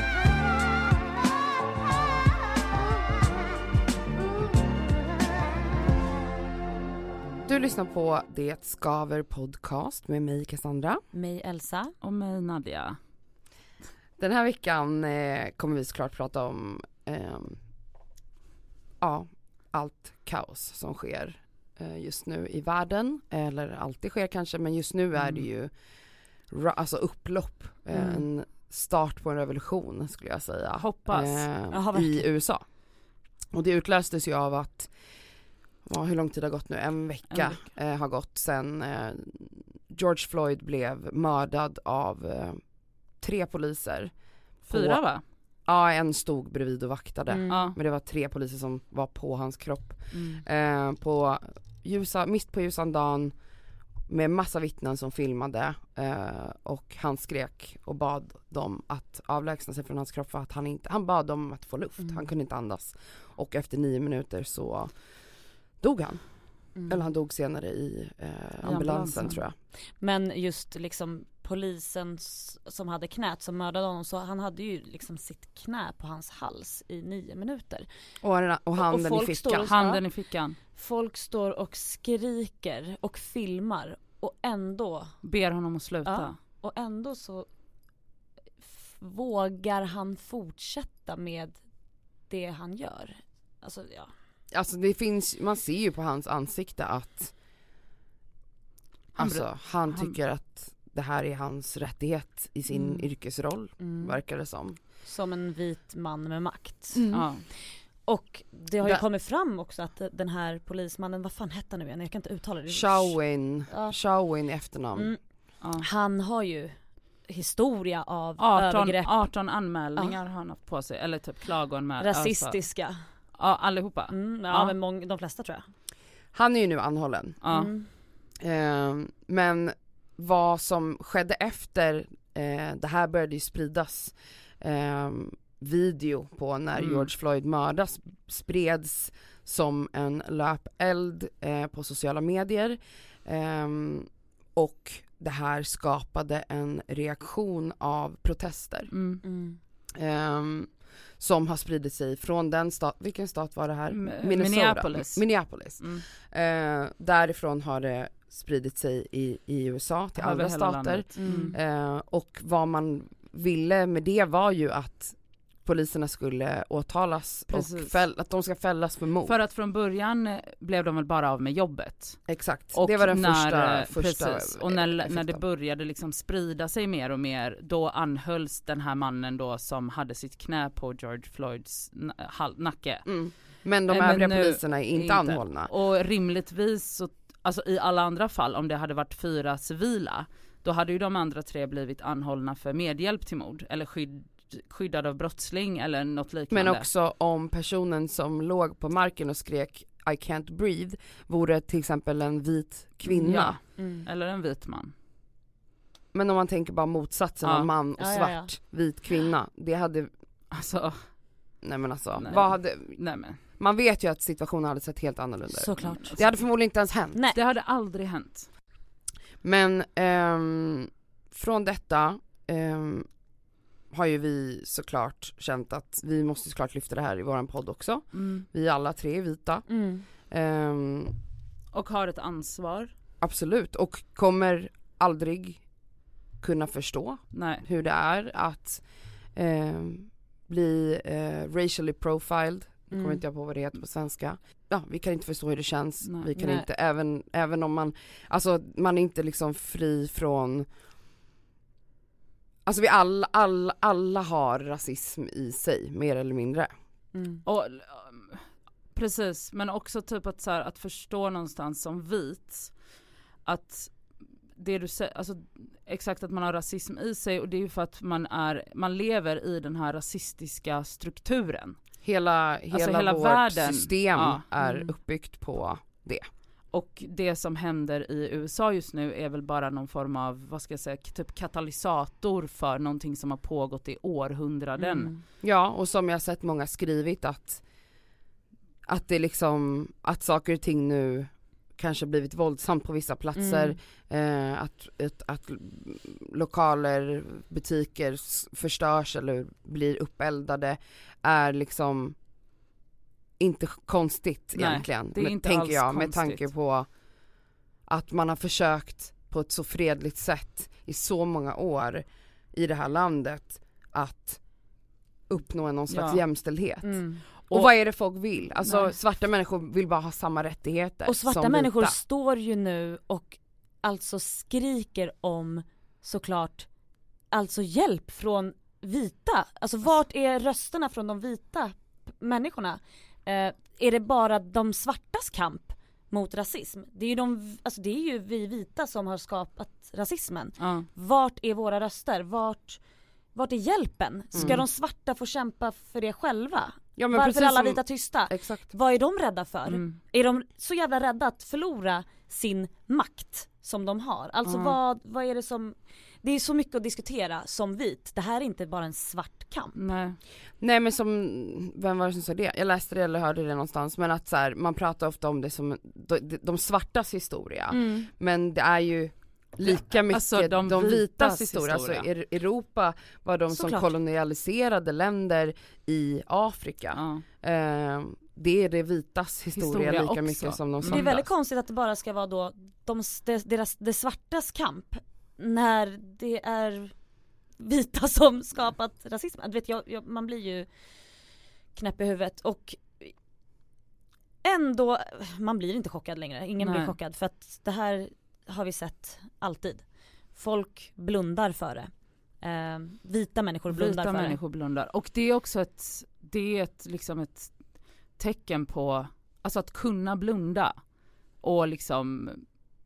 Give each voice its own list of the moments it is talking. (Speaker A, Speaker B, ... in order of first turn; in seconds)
Speaker A: 7.4-11.0, 14.2-17.6, 19.0-25.7, 26.5-32.7, 33.5-34.9, 35.8-45.1, 45.6-53.4, 54.1-65.0, 65.8-69.5, 78.2-79.7, 94.5-97.3, 99.2-104.8, 106.9-107.3, 112.7-115.1, 126.3-127.4, 128.4-148.9, 149.9-169.3, 172.3-175.4, 183.0-185.7, 196.5-203.6, 206.1-210.1, 211.6-213.0, 213.6-217.2, 219.4-223.1, 223.9-231.1, 233.2-235.7, 236.4-250.7, 252.6-256.7, 272.0-276.2, 285.4-287.6, 288.9-302.1, 303.4-306.9, 307.9-314.4, 315.3-321.9, 344.3-344.6, 347.0-348.7, 360.6-381.3
Speaker B: 11.1-11.9, 27.9-28.2, 31.7-32.2, 47.3-47.7, 66.7-67.1, 70.0-77.9, 78.8-80.0, 80.7-85.2, 86.0-87.5, 88.8-91.6, 92.3-94.1, 102.7-103.0, 103.8-104.2, 105.0-114.0, 114.9-115.2, 115.8-116.8, 117.3-119.2, 122.0-123.0, 124.1-125.7, 127.5-127.9, 149.2-149.6, 161.2-161.6, 203.8-204.1, 208.0-208.5, 215.5-216.3, 229.7-230.1, 242.9-243.2, 246.3-246.7, 257.1-257.4, 274.6-274.9, 284.8-285.2, 293.4-293.8, 316.8-317.2, 321.1-326.7, 327.3-342.8, 343.3-359.8, 367.7-368.1, 373.5-373.9, 380.9-387.0, 387.6-390.7, 391.7-393.1, 394.4-404.4
Speaker C: 12.0-13.0, 30.8-31.4, 37.3-37.6, 44.7-45.2, 47.5-47.8, 50.1-50.4, 68.6-69.4, 79.6-80.6, 85.2-86.3, 99.1-100.2, 107.1-107.4, 118.4-122.6, 123.4-124.7, 127.4-127.7, 136.8-137.1, 148.9-149.2, 153.9-156.0, 160.2-161.5, 167.5-168.0, 169.2-183.1, 183.9-196.9, 203.1-204.9, 207.4-207.7, 210.5-211.0, 212.2-213.4, 216.0-216.2, 217.3-218.5, 228.1-228.4, 231.7-232.9, 237.3-237.6, 246.0-246.3, 257.4-262.8, 263.4-271.8, 272.7-274.4, 276.7-285.1, 304.5-306.4, 315.9-316.2, 318.6-318.9, 340.6-340.9, 344.4-344.6, 349.6-350.0, 354.4-354.7, 359.7-360.2, 369.6-372.1, 376.9-377.2, 379.6-381.1, 396.6-396.9, 403.7-407.6, 408.2-410.8, 411.4-412.4